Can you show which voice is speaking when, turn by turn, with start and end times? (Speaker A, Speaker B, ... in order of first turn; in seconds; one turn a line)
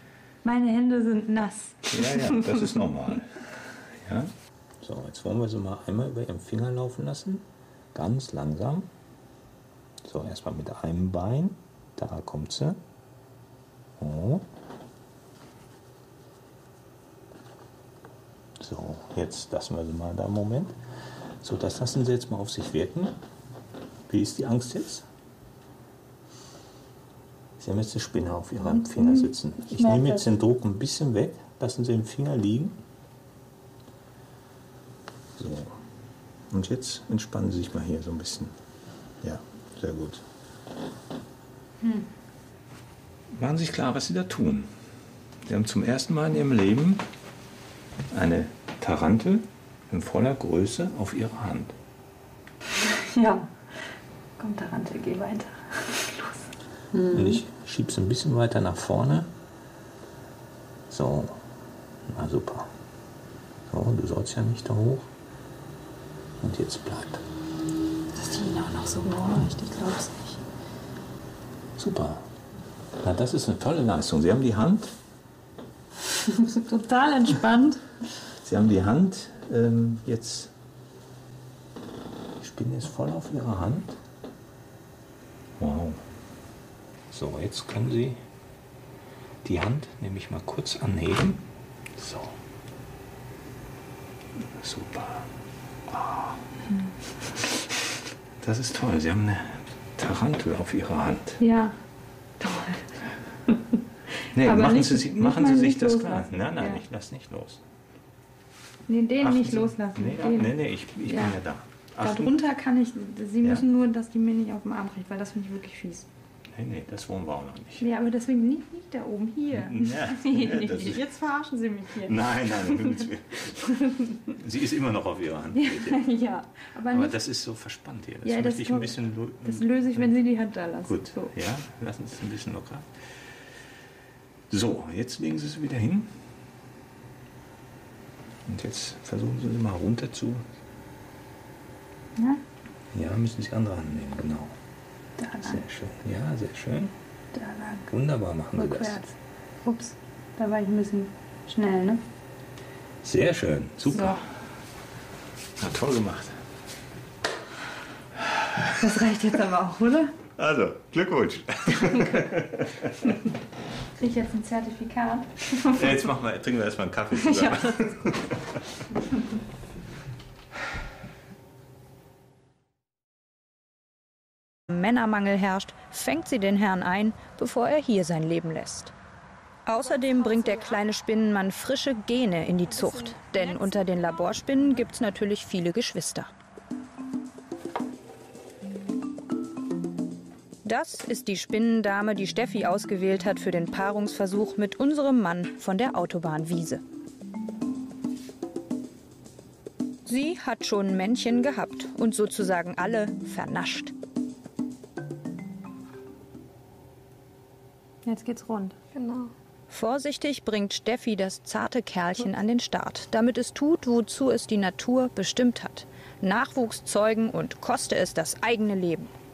Speaker A: 0.4-2.6
Speaker B: 1.9-8.9
Speaker B: 10.0-12.8
Speaker B: 14.0-14.5
Speaker B: 18.6-20.8
Speaker B: 21.4-23.2
Speaker B: 24.1-25.1
Speaker B: 27.6-32.8
Speaker A: 28.6-30.2
Speaker B: 35.3-35.8
Speaker B: 36.5-38.5
Speaker B: 39.2-40.2
Speaker A: 41.8-42.1
Speaker B: 43.3-44.7
Speaker B: 45.4-47.1
Speaker B: 48.1-51.8
Speaker A: 52.7-57.4
Speaker B: 57.0-59.3
Speaker B: 60.9-61.4
Speaker B: 62.1-62.7
Speaker B: 63.7-65.1
Speaker B: 66.4-67.2
Speaker A: 68.1-70.4
Speaker B: 71.8-72.3
Speaker B: 73.0-74.9
Speaker A: 76.3-77.8
Speaker B: 78.3-80.5
Speaker B: 82.4-84.0
Speaker B: 85.6-86.0
Speaker B: 87.1-88.2
Speaker B: 89.4-92.4
Speaker B: 94.6-95.3
Speaker B: 95.9-96.4
Speaker B: 98.4-101.4
Speaker A: 101.4-101.7
Speaker A: 102.4-103.0
Speaker B: 104.3-107.7
Speaker A: 104.4-106.8
Speaker A: 108.9-110.5
Speaker B: 109.2-112.3
Speaker A: 111.1-111.4
Speaker A: 112.0-116.1
Speaker B: 116.5-117.9
Speaker A: 117.8-123.0
Speaker B: 119.5-121.1
Speaker B: 121.9-123.5
Speaker A: 123.6-124.2
Speaker B: 124.3-126.0
Speaker A: 125.5-127.1
Speaker B: 126.9-130.1
Speaker A: 128.2-131.3
Speaker B: 130.8-133.2
Speaker B: 134.5-136.2
Speaker B: 138.4-140.4
Speaker A: 142.2-142.4
Speaker B: 142.9-144.5
Speaker A: 145.2-145.6
Speaker B: 145.4-146.9
Speaker A: 147.3-147.8
Speaker B: 147.9-149.0
Speaker A: 148.5-149.1
Speaker A: 149.6-152.0
Speaker B: 153.0-154.2
Speaker A: 153.9-154.2
Speaker B: 155.6-156.4
Speaker B: 158.2-158.9
Speaker A: 158.7-160.1
Speaker B: 160.3-163.1
Speaker A: 163.9-165.9
Speaker B: 165.6-168.6
Speaker A: 167.2-167.8
Speaker C: 174.7-178.9
Speaker C: 179.7-186.3
Speaker D: 179.8-180.8
Speaker D: 182.7-184.6
Speaker C: 190.6-196.8
Speaker C: 200.1-203.9
Speaker A: 208.0-208.8
Speaker D: 208.9-209.3
Speaker C: 209.7-219.1